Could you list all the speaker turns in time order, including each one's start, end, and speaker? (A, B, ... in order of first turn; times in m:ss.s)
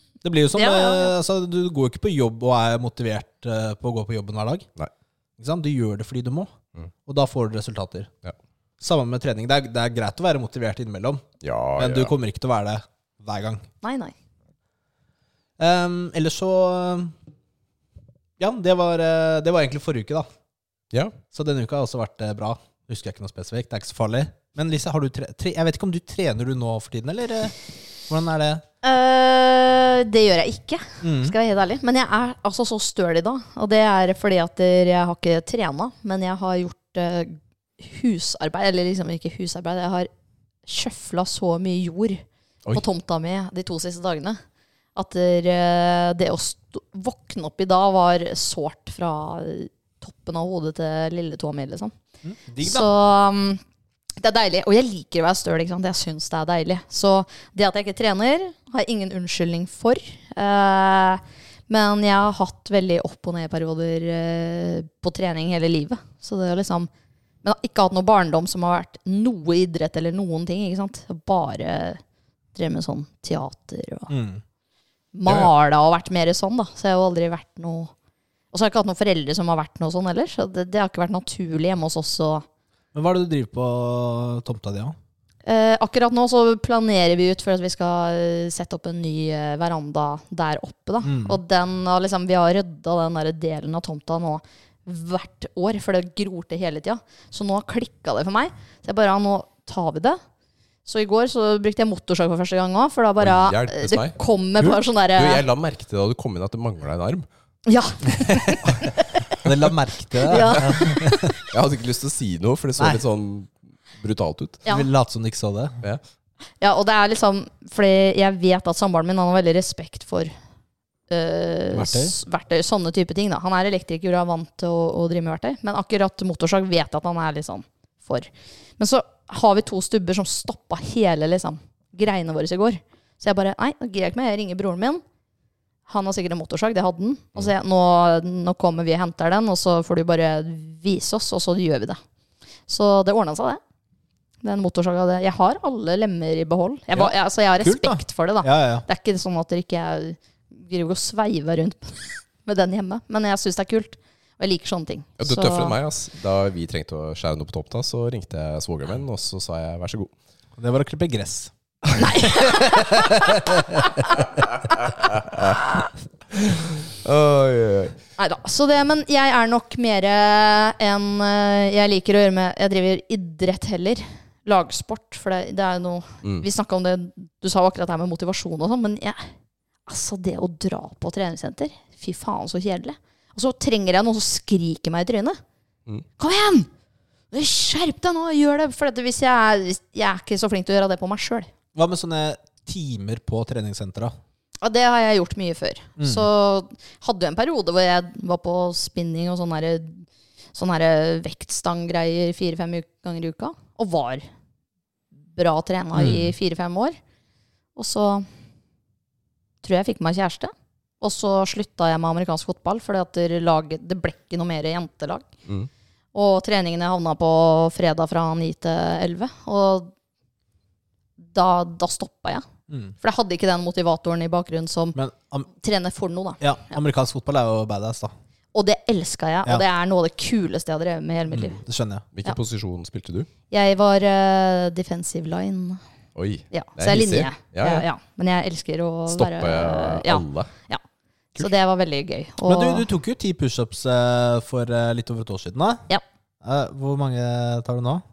0:00.2-0:04.7 A
0:00.6-0:01.1 B
0:05.4-0:06.5 A
0:07.1-0:08.1 A
0:08.8-0:13.7 A
0:11.4-0:12.1 C
0:13.8-0:14.1 B
0:15.6-0:17.1 A
0:18.4-0:20.3 A
0:20.9-0:21.2 C
0:21.3-0:27.6 A
0:28.1-0:28.6 A
0:28.8-0:40.1 B
0:31.0-0:31.4 A
0:40.7-0:44.4 B
0:45.0-0:52.0 B
0:52.2-0:52.9 A
0:52.6-0:53.6 B
0:54.2-1:06.9 B
1:07.4-1:12.0 B
1:12.5-1:14.1 B
1:14.1-1:14.4 A
1:15.1-1:17.9 B
1:15.3-1:15.5 C
1:18.5-1:22.5 B
1:22.9-1:25.0 A
1:25.4-1:40.2 B
1:31.0-1:31.4 A
1:40.8-1:45.4 B
1:43.2-1:47.3 C
1:47.7-1:49.2 B
1:49.4-1:51.4 A
1:50.3-1:51.2 B
1:51.5-1:54.6 C
1:54.7-1:55.8 A
1:56.6-2:00.3 B
2:01.1-2:15.0 B
2:01.7-2:02.2 A
2:15.9-2:22.0 B
2:22.7-2:23.6 B
2:24.4-2:35.8 B
2:26.9-2:28.9 A
2:35.2-2:40.1 C
2:40.6-2:41.5 A
2:42.0-2:43.2 B
2:42.3-2:43.9 A
2:45.0-2:45.6 C
2:46.3-2:48.0 C
2:48.2-2:59.3 B
2:59.9-3:05.4 B
3:06.2-3:06.7 B
3:07.3-3:11.5 B
3:11.8-3:14.2 A
3:14.6-3:24.3 B
3:16.0-3:16.3 A
3:25.3-3:27.0 B
3:26.0-3:26.3 A
3:27.8-3:28.3 B
3:29.6-3:35.3 B
3:36.1-3:39.9 B
3:41.2-3:42.4 B
3:42.7-3:43.0 A
3:43.0-3:45.0 B
3:45.0-3:45.5 A
3:45.6-3:46.8 B
3:46.4-3:48.1 A
3:48.5-3:51.6 B
3:51.3-3:52.1 A
3:52.1-3:53.3 C
3:53.5-3:55.8 B
3:56.2-3:57.9 C
3:56.5-4:00.8 B
3:59.1-4:00.5 C
4:01.4-4:02.9 B
4:02.4-4:05.9 A
4:06.4-4:08.0 A